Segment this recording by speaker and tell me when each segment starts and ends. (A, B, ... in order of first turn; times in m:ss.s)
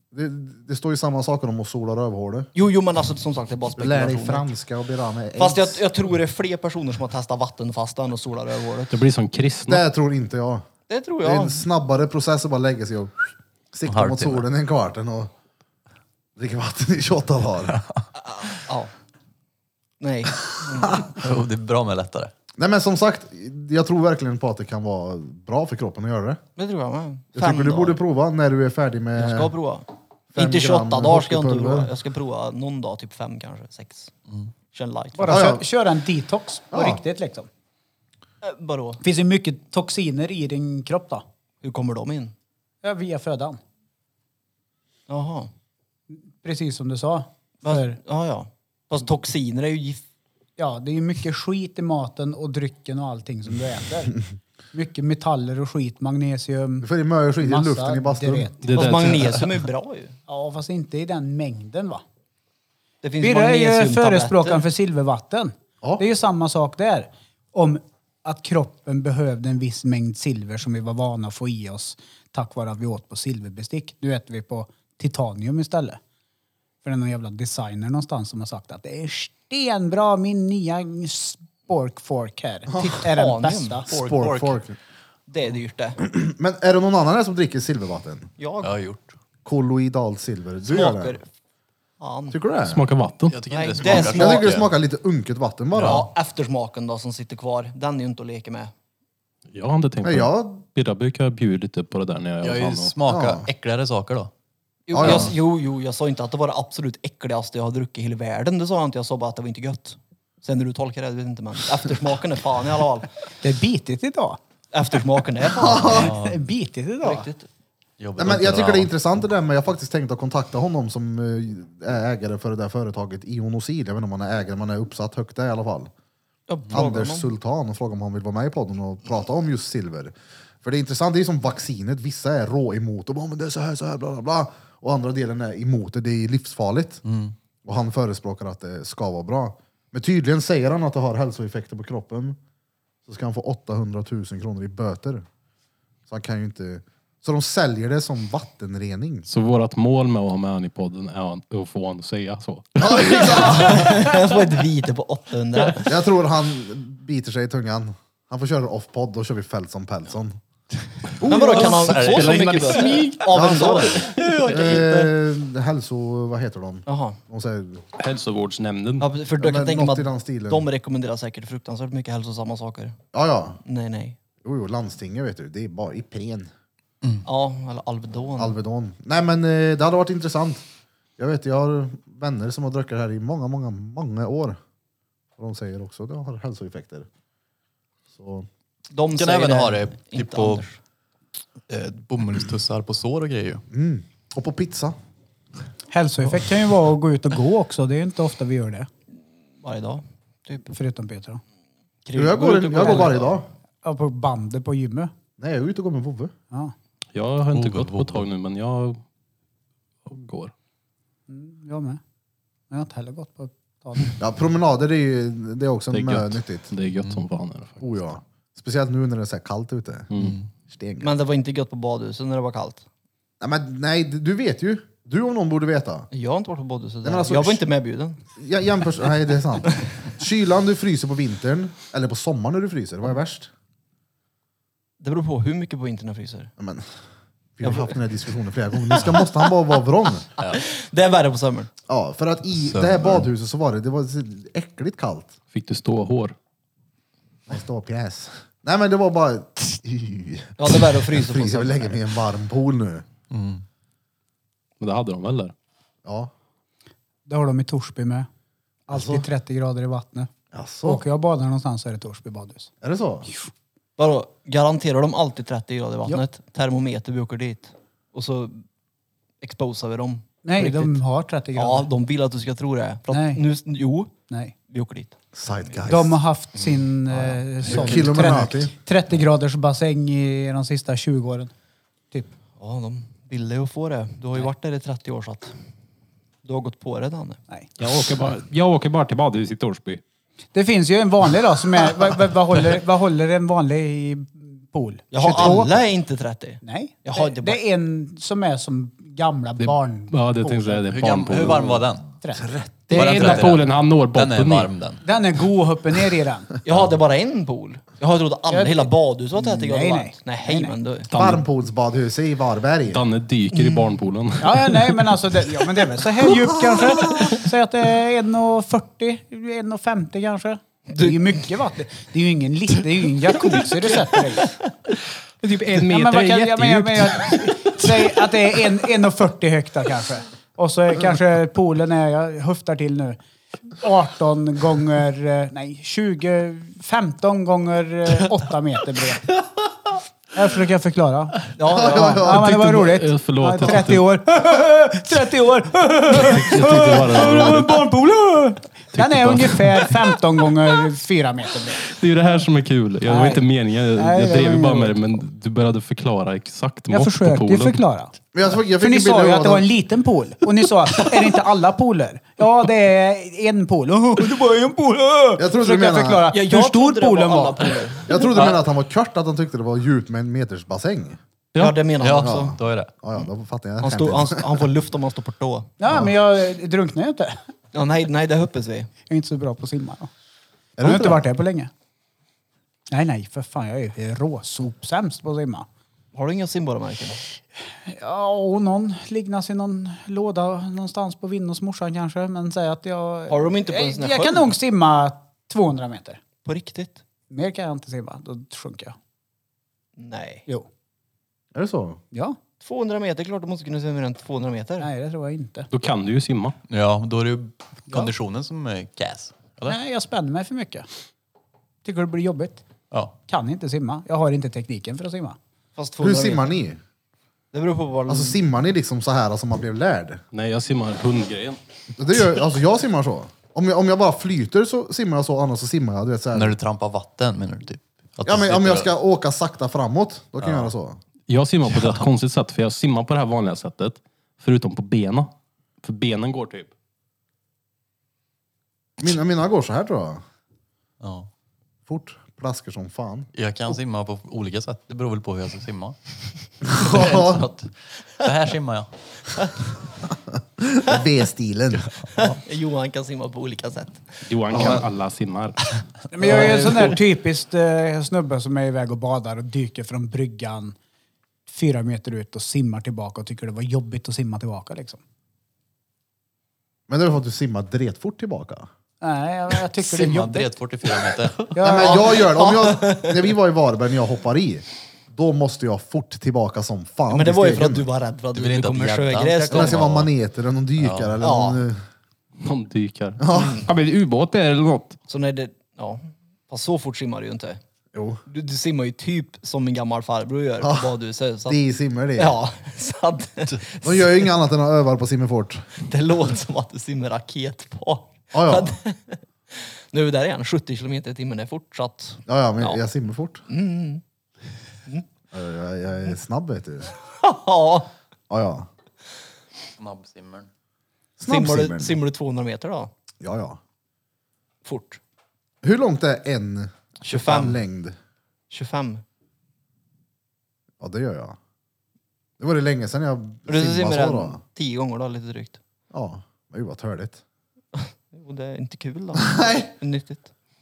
0:00.1-0:02.5 A
0:02.6-0:04.5 B
0:03.8-0:05.8 A
0:05.4-0:09.0 B
0:08.9-0:09.8 C
0:09.7-0:10.6 A
0:10.9-0:11.6 B
0:11.2-0:15.3 A
0:13.9-0:14.4 D
0:16.4-0:17.8 A
0:18.2-0:18.9 B
0:20.0-0:21.1 B
0:21.2-0:22.3 D
0:22.6-0:26.4 A
0:26.6-0:28.0 B
0:27.4-0:29.5 A
0:29.2-0:34.1 B
0:30.3-0:31.9 A
0:34.7-0:35.5 B
0:35.2-0:37.5 E
0:35.3-0:35.6 A
0:36.7-0:37.0 A
0:38.4-0:39.0 B
0:39.0-0:41.2 E
0:41.6-0:42.3 B
0:42.8-0:43.6 E
0:45.1-0:45.5 B
0:46.1-0:48.0 E
0:47.6-0:50.0 B
0:50.6-0:54.2 E
0:54.7-0:58.6 E
0:56.8-0:58.5 A
0:58.6-0:59.5 C
0:58.7-1:00.2 B
1:00.3-1:02.0 E
1:03.0-1:04.6 B
1:03.2-1:16.0 E
1:16.8-1:23.9 E
1:22.8-1:23.8 B
1:23.9-1:24.6 D
1:23.9-1:24.8 A
1:25.3-1:26.0 B
1:26.0-1:28.3 A
1:28.4-1:28.7 B
1:28.6-1:29.1 D
1:29.4-1:31.2 A
1:30.7-1:31.2 B
1:32.0-1:32.4 B
1:32.3-1:32.8 A
1:32.6-1:33.4 C
1:33.3-1:34.7 D
1:33.5-1:34.5 B
1:33.9-1:36.1 A
1:35.7-1:36.0 D
1:35.8-1:38.7 B
1:39.5-1:43.0 C
1:40.0-1:40.6 A
1:42.4-1:44.3 D
1:43.1-1:43.5 A
1:44.9-1:53.1 B
1:44.9-1:45.3 D
1:44.9-1:45.4 A
1:53.4-1:54.4 E
1:54.7-1:56.1 B
1:55.6-1:56.1 A
1:55.9-1:56.4 D
1:55.9-1:57.3 E
1:57.0-1:57.5 B
1:58.0-1:58.9 D
1:58.2-2:05.9 A
2:06.5-2:07.3 B
2:06.7-2:17.0 A
2:17.0-2:17.4 D
2:17.6-2:22.4 A
2:23.1-2:25.2 A
2:26.1-2:29.3 A
2:29.3-2:33.4 C
2:32.8-2:34.0 A
2:33.1-2:35.9 B
2:35.8-2:40.4 A
2:41.2-2:43.2 D
2:41.2-2:44.3 B
2:42.8-2:43.2 C
2:43.3-2:47.8 A
2:43.8-2:45.1 D
2:46.9-2:47.2 B
2:48.0-2:49.1 C
2:49.0-2:53.0 B
2:49.4-2:50.7 A
2:53.1-2:53.6 A
2:53.6-2:54.2 B
2:54.4-2:56.5 A
2:57.2-2:58.6 B
2:58.4-3:00.6 A
3:01.2-3:04.6 A
3:05.4-3:07.1 A
3:08.1-3:08.5 A
3:08.9-3:10.8 B
3:09.2-3:10.6 D
3:11.7-3:13.6 D
3:13.7-3:15.0 A
3:15.9-3:18.9 E
3:19.6-3:20.7 B
3:20.7-3:21.4 E
3:22.1-3:23.4 B
3:22.2-3:23.5 A
3:23.8-3:25.1 E
3:25.4-3:26.3 A
3:27.2-3:29.0 C
3:27.5-3:28.3 D
3:30.1-3:30.5 C
3:31.3-3:32.0 E
3:32.7-3:34.2 E
3:34.2-3:36.7 A
3:35.9-3:37.9 C
3:37.8-3:40.1 A
3:40.1-3:40.4 C
3:40.2-3:40.5 D
3:40.7-3:41.1 A
3:41.0-3:42.8 B
3:43.4-3:46.1 A
3:46.1-3:48.2 B
3:47.0-3:47.6 A
3:48.4-3:53.5 A
3:55.0-3:56.5 B
3:56.6-3:56.9 A
3:57.6-4:00.3 A
3:57.6-3:58.0 B
3:58.9-3:59.3 B
4:00.4-4:01.7 B
4:01.9-4:05.4 A
4:02.6-4:03.3 D
4:05.5-4:06.4 C
4:07.5-4:13.0 A
4:10.6-4:12.0 B
4:13.3-4:13.6 D
4:14.8-4:15.5 C
4:16.0-4:16.3 A
4:17.3-4:18.3 E
4:18.9-4:20.3 E
4:18.9-4:19.3 A
4:20.5-4:21.0 A
4:20.8-4:22.7 E
4:22.8-4:23.3 A
4:24.0-4:28.6 B
4:29.4-4:31.0 B
4:30.4-4:31.9 E
4:31.6-4:34.1 B
4:33.1-4:33.4 E
4:34.7-4:35.2 B
4:35.4-4:36.2 A
4:35.9-4:41.5 E
4:36.6-4:36.8 D
4:37.2-4:38.7 A
4:37.7-4:38.0 D
4:42.6-4:45.5 B
4:46.4-4:47.4 B
4:47.8-4:50.0 C
4:50.5-4:55.7 E
4:55.1-4:57.6 B
4:56.6-5:00.8 E
4:59.6-5:01.9 C
5:00.9-5:02.1 D
5:02.2-5:03.5 E
5:02.4-5:02.9 A
5:02.9-5:04.7 C
5:02.9-5:05.0 D
5:05.0-5:06.5 E
5:06.6-5:11.1 B
5:08.5-5:10.7 E
5:11.1-5:11.4 C
5:11.2-5:13.0 A
5:12.9-5:15.1 C
5:13.5-5:13.9 B
5:14.4-5:24.5 E
5:20.9-5:21.5 B
5:25.4-5:27.7 C
5:25.8-5:33.2 E
5:33.8-5:39.3 E
5:40.3-5:51.8 E
5:41.6-5:42.3 B
5:41.8-5:42.4 A
5:42.2-5:44.0 C
5:46.1-5:47.9 C
5:48.9-5:50.2 C
5:51.8-5:57.8 C
5:53.1-5:53.4 E
5:54.0-5:55.0 E
5:56.9-5:58.1 E
5:58.3-5:59.7 A
5:58.8-6:07.8 E
6:05.4-6:06.3 A
6:06.3-6:08.2 B
6:08.1-6:11.2 A
6:08.3-6:08.6 D
6:11.5-6:11.8 C
6:11.6-6:12.6 B
6:12.0-6:12.9 D
6:12.2-6:14.6 A
6:13.8-6:15.7 B
6:15.8-6:17.4 E
6:17.7-6:18.9 B
6:19.1-6:20.1 E
6:20.8-6:21.3 A
6:20.8-6:21.7 E
6:22.9-6:25.7 E
6:26.1-6:27.2 B
6:27.9-6:36.2 E
6:33.3-6:34.5 B
6:36.4-6:37.0 B
6:37.3-6:39.0 E
6:40.0-6:40.4 B
6:41.5-6:42.0 A
6:42.6-6:44.9 B
6:44.8-6:45.7 E
6:45.7-6:46.6 C
6:46.7-6:49.8 D
6:49.6-6:50.9 E
6:51.8-6:52.6 E
6:53.3-6:55.4 E
6:55.8-6:56.5 B
6:56.0-6:56.8 A
6:57.5-6:58.4 B
6:58.1-7:00.2 A
7:00.3-7:01.6 C
7:02.0-7:06.6 A
7:06.3-7:08.9 D
7:08.2-7:11.0 A
7:10.4-7:10.7 D
7:11.3-7:15.3 C
7:11.7-7:12.1 D
7:15.8-7:16.7 C
7:19.0-7:20.2 A
7:21.0-7:21.3 D
7:21.9-7:23.3 A
7:23.3-7:28.9 D
7:26.7-7:27.5 A
7:30.3-7:32.0 A
7:32.2-7:34.2 B
7:34.3-7:35.6 C
7:34.5-7:34.9 D
7:36.1-7:40.8 E
7:36.2-7:37.0 D
7:41.5-7:45.0 E
7:46.9-7:48.7 A
7:49.0-7:50.5 E
7:49.8-7:51.5 D
7:51.5-7:52.1 E
7:51.6-7:57.9 A
7:51.7-7:53.3 B
7:57.1-7:59.8 B
7:58.3-8:00.1 D
7:59.5-8:01.8 A
8:00.8-8:01.2 D
8:01.2-8:01.6 B
8:02.4-8:05.0 C
8:03.2-8:03.6 A
8:03.3-8:03.7 B
8:05.1-8:07.6 B
8:07.9-8:08.2 A
8:08.3-8:11.6 B
8:10.6-8:10.9 A
8:11.5-8:12.4 A
8:12.2-8:14.1 B
8:13.8-8:15.7 A
8:15.8-8:22.8 B
8:18.3-8:18.7 A
8:22.3-8:23.4 A
8:23.5-8:24.0 B
8:25.3-8:26.9 A
8:27.2-8:27.9 B
8:28.3-8:28.7 A
8:29.8-8:30.5 D
8:31.2-8:32.0 A
8:31.3-8:32.9 B
8:33.2-8:33.6 A
8:34.6-8:35.0 B
8:35.6-8:38.0 A
8:37.1-8:37.6 B
8:38.5-8:39.0 B
8:40.8-8:41.4 A
8:42.4-8:44.4 A
8:43.5-8:45.6 B
8:45.9-8:47.2 A
8:47.8-8:50.3 B
8:49.2-8:49.7 A